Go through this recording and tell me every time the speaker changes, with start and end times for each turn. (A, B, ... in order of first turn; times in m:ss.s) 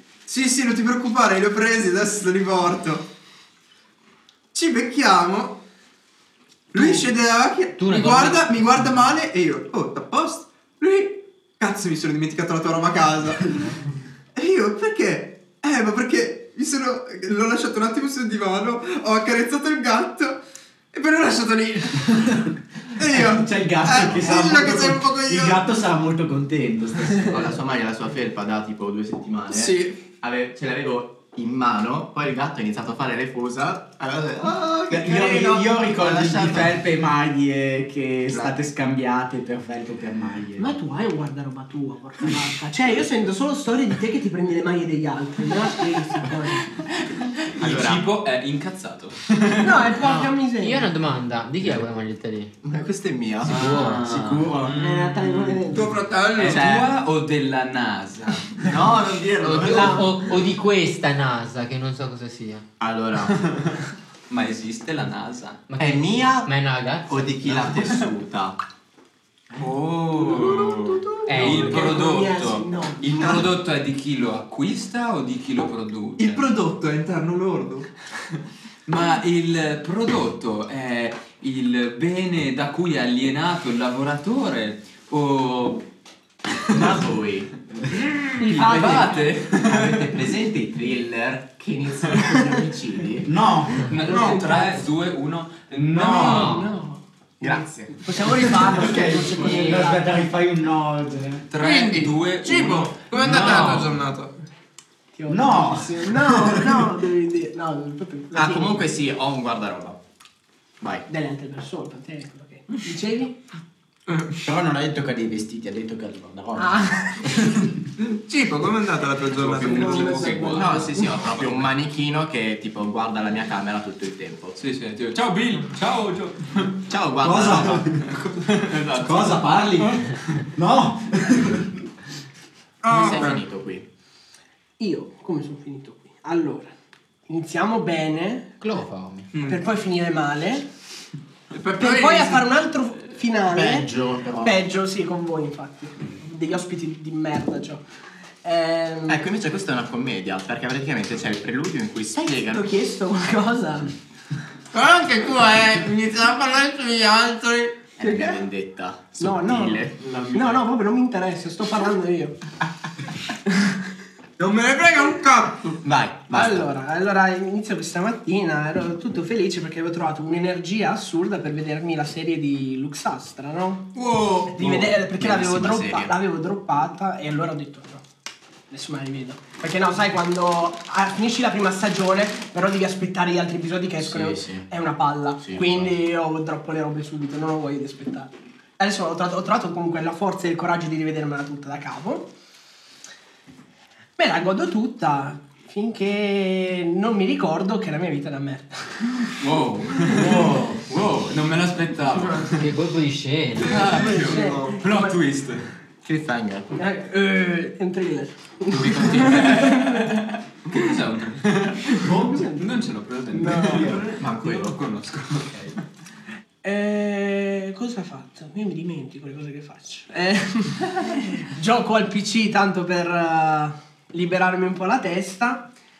0:00.2-0:03.1 A
0:04.5-0:05.6 A
0:06.7-0:13.8 A
0:07.8-0:08.5 B
0:14.3-0:20.4 A
0:20.9-0:25.6 A
0:23.1-0:27.3 C
0:27.2-0:36.8 D
0:29.5-0:30.0 A
0:34.9-0:40.7 C
0:38.3-0:38.6 D
0:40.6-0:46.8 E
0:47.4-0:50.0 F
0:47.6-0:48.1 D
0:49.6-0:50.9 E
0:50.0-0:52.5 B
0:52.6-0:53.7 D
0:53.4-0:55.7 F
0:53.4-0:54.0 B
0:53.5-0:55.6 C
0:54.8-0:55.9 E
0:55.7-0:56.6 A
0:56.3-0:58.7 F
0:56.4-0:56.9 D
0:58.6-1:00.1 D
0:59.4-1:02.6 B
0:59.6-1:00.0 E
1:02.8-1:03.4 D
1:03.3-1:05.6 F
1:05.7-1:07.8 B
1:05.8-1:06.5 D
1:07.1-1:08.6 D
1:09.6-1:16.4 F
1:10.1-1:13.4 E
1:11.2-1:12.0 B
1:16.2-1:17.9 A
1:18.8-1:25.8 F
1:26.7-1:27.9 D
1:27.9-1:30.2 F
1:28.4-1:29.2 E
1:28.6-1:33.3 D
1:33.2-1:33.9 C
1:33.8-1:36.7 F
1:33.9-1:34.8 E
1:34.1-1:34.5 A
1:35.7-1:36.7 C
1:36.0-1:40.0 E
1:36.2-1:36.6 B
1:37.4-1:38.8 D
1:38.6-1:41.5 C
1:41.5-1:43.8 F
1:41.6-1:44.3 A
1:43.2-1:43.9 B
1:45.1-1:49.0 E
1:45.3-1:46.8 C
1:48.3-1:50.0 D
1:50.8-1:51.0 D
1:51.1-1:53.4 E
1:54.1-1:54.4 A
1:54.4-1:57.5 C
1:56.6-1:57.5 E
1:58.0-2:00.7 A
1:59.3-2:01.7 F
1:59.6-2:01.1 E
1:59.8-2:04.6 D
2:04.6-2:06.8 F
2:06.9-2:08.0 D
2:07.2-2:08.2 C
2:08.0-2:10.2 F
2:09.0-2:11.7 C
2:12.8-2:13.4 A
2:12.9-2:13.8 D
2:14.8-2:16.7 E
2:17.3-2:18.5 E
2:18.6-2:19.3 B
2:19.3-2:19.6 A
2:19.4-2:20.7 E
2:21.5-2:22.5 A
2:21.8-2:23.9 E
2:23.5-2:24.6 C
2:24.4-2:27.8 E
2:28.4-2:29.2 E
2:29.1-2:32.7 D
2:32.3-2:33.9 E
2:34.7-2:37.8 A
2:38.0-2:40.0 D
2:38.0-2:38.4 E
2:39.2-2:42.4 E
2:43.5-2:43.8 E
2:44.4-2:45.8 A
2:45.8-2:46.7 D
2:46.3-2:53.9 E
2:53.9-2:54.6 A
2:54.5-2:58.0 E
2:55.1-2:56.1 D
2:58.7-3:12.3 E
3:04.0-3:04.6 C
3:05.5-3:05.9 C
3:14.2-3:19.2 E
3:19.4-3:22.7 F
3:20.0-3:20.8 C
3:22.6-3:23.8 B
3:23.6-3:24.8 A
3:23.6-3:25.6 F
3:23.8-3:25.2 E
3:26.0-3:26.7 D
3:26.7-3:30.1 E
3:28.7-3:35.8 F
3:32.0-3:32.4 C
3:32.1-3:34.1 E
3:33.8-3:34.8 D
3:36.6-3:45.7 E